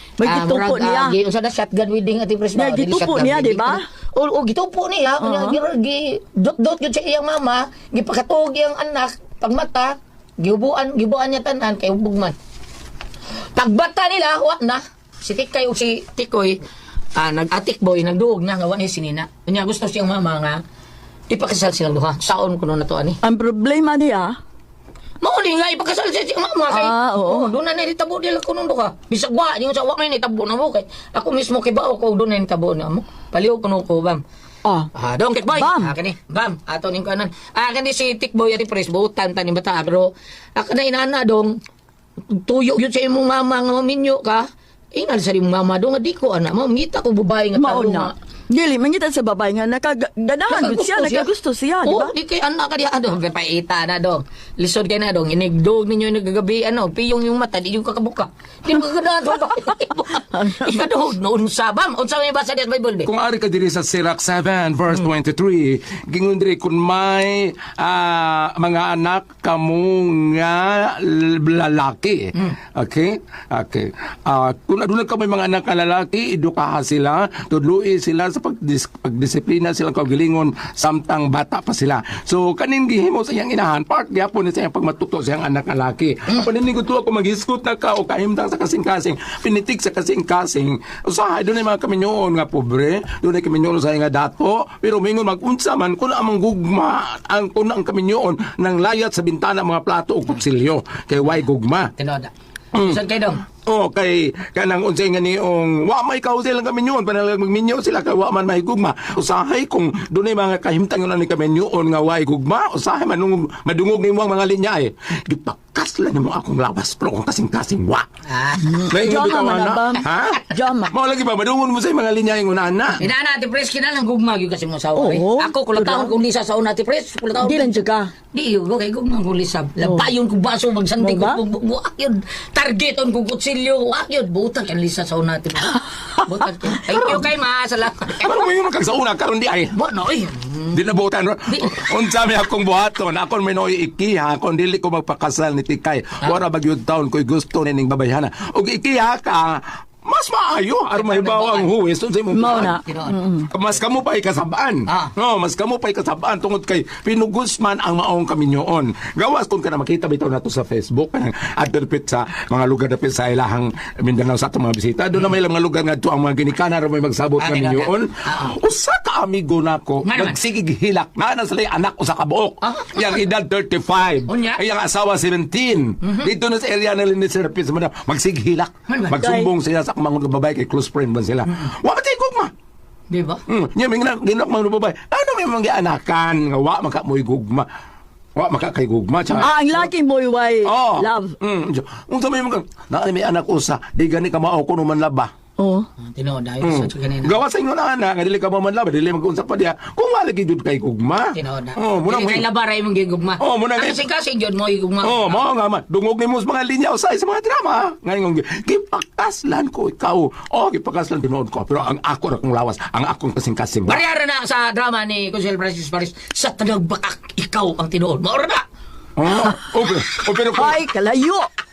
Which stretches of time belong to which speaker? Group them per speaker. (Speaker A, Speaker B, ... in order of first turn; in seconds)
Speaker A: 0.2-1.1, 2.5-3.8, 5.2-5.6, 23.2-24.4, 26.7-27.5, 34.6-34.9, 35.5-35.9, 47.6-52.1, 60.3-60.8, 118.6-120.9, 125.0-126.1, 127.4-128.1, 129.8-130.1, 131.0-131.4, 152.3-153.5, 179.2-179.5, 189.4-191.3, 195.6-195.9, 220.6-221.5
Speaker B: 0.2-12.3, 13.6-16.6, 17.2-20.6, 21.3-23.2, 25.2-34.2, 34.9-41.6, 42.3-48.1, 50.5-51.3, 51.8-63.1, 102.0-103.4, 118.3-118.9, 123.0-138.4, 139.8-140.8, 141.5-141.8, 150.9-151.7, 152.6-153.2, 167.4-168.6, 170.0-170.4, 172.6-173.1, 174.3-174.6, 176.0-176.3, 178.9-179.2, 183.1-183.4, 196.1-197.4, 201.3-205.4, 213.9-218.6
Speaker C: 63.1-101.9, 102.7-118.1, 118.9-123.0, 138.2-139.8, 140.7-152.8, 153.5-182.5, 183.5-187.7, 188.4-189.9, 190.7-195.3, 196.6-202.5, 203.4-204.0, 205.0-214.0, 219.2-220.8